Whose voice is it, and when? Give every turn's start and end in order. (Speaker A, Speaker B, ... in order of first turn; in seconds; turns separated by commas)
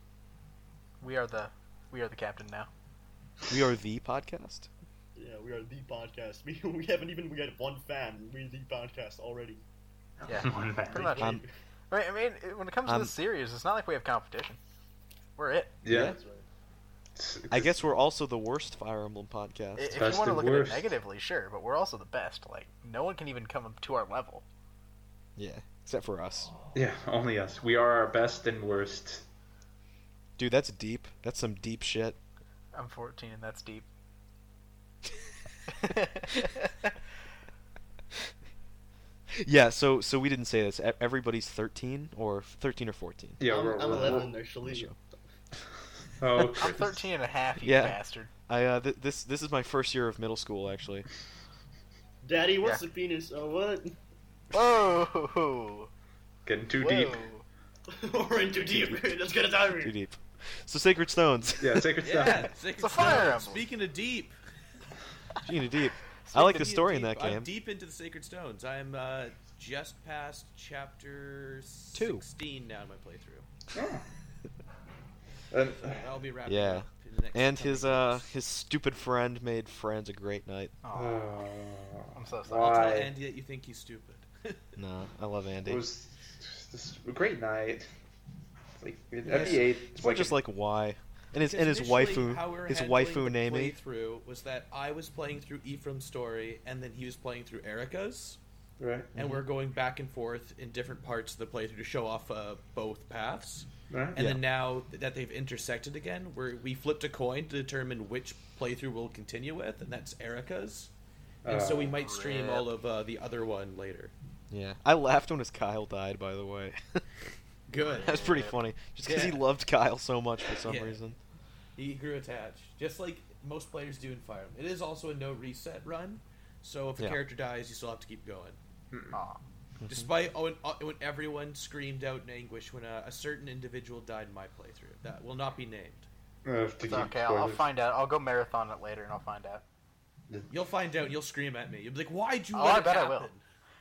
Speaker A: 1.0-2.7, Speaker B: 3.5-4.7, Speaker C: 5.2-9.6, Speaker D: 10.2-11.1, Speaker A: 10.3-11.4, Speaker C: 10.9-11.5, Speaker B: 11.2-11.4, Speaker A: 11.9-14.6, Speaker B: 12.8-13.1, Speaker A: 15.4-15.8, Speaker D: 15.8-16.1, Speaker B: 15.9-16.1, Speaker C: 15.9-16.4, Speaker D: 17.1-17.8, Speaker B: 17.5-20.1, Speaker A: 19.8-24.4, Speaker D: 19.9-20.9, Speaker B: 25.4-26.5, Speaker D: 26.7-29.2, Speaker B: 30.4-32.2, Speaker A: 32.7-33.9, Speaker B: 35.8-36.5, Speaker A: 35.8-36.9, Speaker B: 39.3-45.0, Speaker D: 43.4-44.3, Speaker C: 43.4-44.9, Speaker D: 46.2-47.1, Speaker A: 46.5-48.3, Speaker B: 47.6-51.0, Speaker C: 52.2-54.0, Speaker A: 54.5-55.9, Speaker D: 56.4-57.2, Speaker A: 56.8-57.4, Speaker C: 57.9-59.9, Speaker B: 59.8-62.0, Speaker D: 61.6-62.5, Speaker E: 62.0-64.3, Speaker A: 62.8-63.6, Speaker B: 65.4-67.5, Speaker A: 66.3-66.7, Speaker E: 66.3-73.5, Speaker B: 71.9-72.2, Speaker D: 73.7-74.0, Speaker D: 75.5-76.1, Speaker E: 75.8-78.2, Speaker B: 76.5-80.7, Speaker A: 80.8-81.2, Speaker D: 80.9-83.1, Speaker A: 82.1-82.8, Speaker E: 82.5-84.7, Speaker B: 84.8-85.9, Speaker D: 85.6-87.9, Speaker D: 88.8-90.4, Speaker E: 89.2-89.6, Speaker B: 89.2-93.8, Speaker E: 91.4-98.4, Speaker D: 98.8-99.1, Speaker B: 99.1-99.4, Speaker E: 99.2-110.9, Speaker D: 103.9-104.2, Speaker D: 111.4-112.0, Speaker E: 111.4-114.1, Speaker A: 112.0-112.7, Speaker B: 114.5-117.0, Speaker E: 117.7-118.2, Speaker A: 117.8-118.6, Speaker B: 118.0-121.2, Speaker E: 119.0-119.4, Speaker E: 120.5-121.0, Speaker E: 121.8-128.6, Speaker D: 128.9-129.2, Speaker A: 129.1-129.4, Speaker B: 129.8-130.1, Speaker E: 129.9-136.1, Speaker D: 136.4-137.7, Speaker A: 136.8-139.6, Speaker E: 140.5-143.4, Speaker A: 142.5-143.3